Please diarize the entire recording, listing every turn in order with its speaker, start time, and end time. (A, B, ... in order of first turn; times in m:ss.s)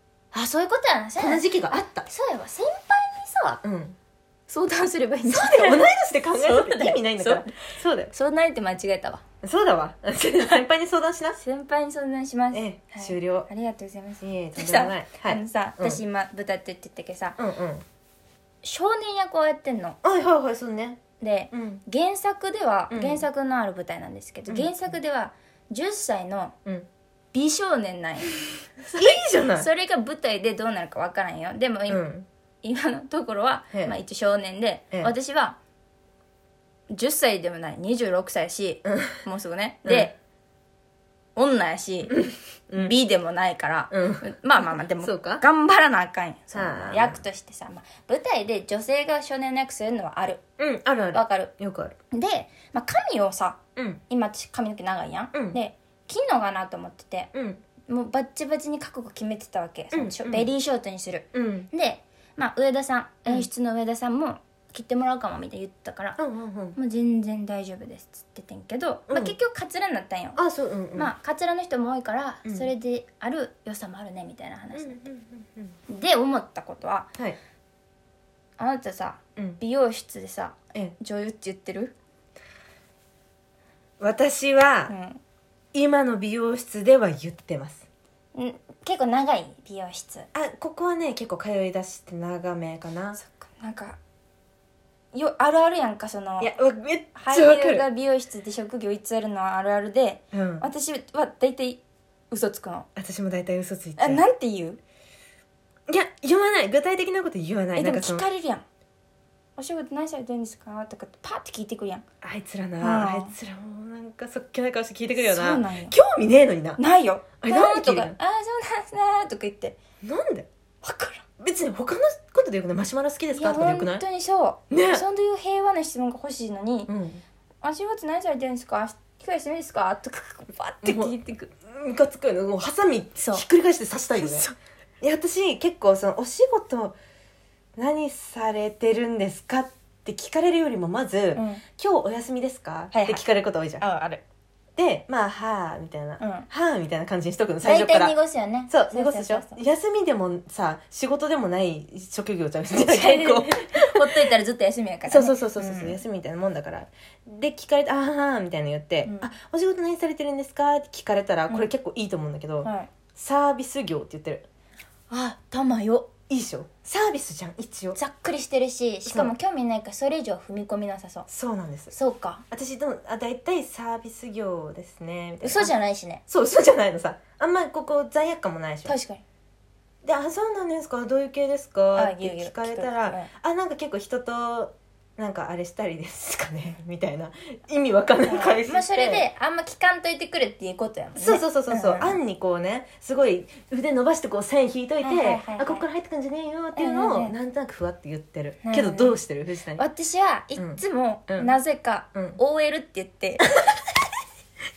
0:00.3-0:03.6 A
0:01.2-0:02.1 B
0:03.6-0:04.0 B
0:04.5-0:09.2 A
0:05.2-0:08.1 B
0:09.4-0:11.4 B
0:11.4-0:17.4 A
0:12.5-0:13.5 B
0:14.2-0:16.0 B
0:17.4-0:17.8 B
0:18.6-0:20.0 A
0:20.0-0:21.8 B
0:21.2-0:26.6 A
0:22.9-0:23.2 B
0:27.3-0:28.3 A
0:28.8-0:29.7 B
0:29.0-0:32.0 A
0:31.9-0:32.3 B
0:32.6-0:35.6 A
0:36.9-0:40.2 A
0:38.8-0:39.2 B
0:39.8-0:40.1 B
0:41.4-0:42.2 A
0:42.1-0:42.9 B
0:42.8-0:50.4 A
0:43.9-0:45.4 B
0:46.5-0:47.2 B
0:50.6-0:52.0 B
0:51.1-0:51.5 A
0:52.1-0:57.3 A
0:53.8-0:54.0 B
0:55.3-0:55.6 B
0:57.3-0:57.6 B
0:57.9-1:06.2 A
0:59.9-1:00.5 B
1:01.3-1:01.7 B
1:06.2-1:06.8 B
1:06.7-1:10.4 A
1:09.1-1:09.3 B
1:10.4-1:11.1 B
1:11.0-1:15.1 A
1:14.7-1:15.8 B
1:15.9-1:17.1 A
1:18.6-1:22.0 A
1:24.0-1:24.9 B
1:24.9-1:25.2 A
1:25.7-1:27.9 B
1:28.3-1:30.3 A
1:30.3-1:33.2 B
1:33.2-1:34.0 A
1:35.1-1:36.5 A
1:36.4-1:37.8 B
1:37.2-1:42.9 A
1:40.3-1:40.7 B
1:43.0-1:44.2 B
1:44.0-1:44.8 A
1:45.9-1:48.2 B
1:47.8-1:48.6 A
1:49.6-1:52.0 A
1:52.2-1:56.8 B
1:52.8-1:53.3 A
1:55.2-1:56.0 A
1:56.8-1:59.8 A
1:57.4-1:58.2 B
2:00.0-2:00.5 B
2:00.8-2:01.2 A
2:01.4-2:04.0 B
2:03.3-2:06.9 A
2:04.7-2:05.0 B
2:06.9-2:07.2 B
2:07.6-2:11.5 A
2:10.8-2:14.5 B
2:14.2-2:14.5 A
2:15.0-2:17.0 B
2:17.8-2:23.8 B
2:21.3-2:21.6 A
2:22.9-2:23.2 A
2:23.8-2:24.2 A
2:24.8-2:28.2 B
2:26.2-2:26.5 A
2:27.6-2:29.6 A
2:28.7-2:34.1 B
2:32.8-2:36.0 A
2:35.1-2:44.5 B
2:39.0-2:39.3 A
2:42.6-2:42.9 A
2:45.1-2:46.1 A
2:46.3-2:48.0 B
2:48.0-2:51.3 A
2:49.0-2:49.3 B
2:51.3-2:51.9 B
2:51.9-2:52.4 A
2:52.5-2:55.7 B
2:55.4-2:56.2 A
2:56.3-2:59.0 B
2:58.8-2:59.2 A
3:00.0-3:09.2 B
3:02.0-3:03.3 A
3:08.2-3:12.2 A
3:11.2-3:19.8 B
3:15.0-3:15.9 A
3:16.8-3:17.4 A
3:18.6-3:19.2 A
3:19.8-3:23.5 A
3:20.6-3:21.6 B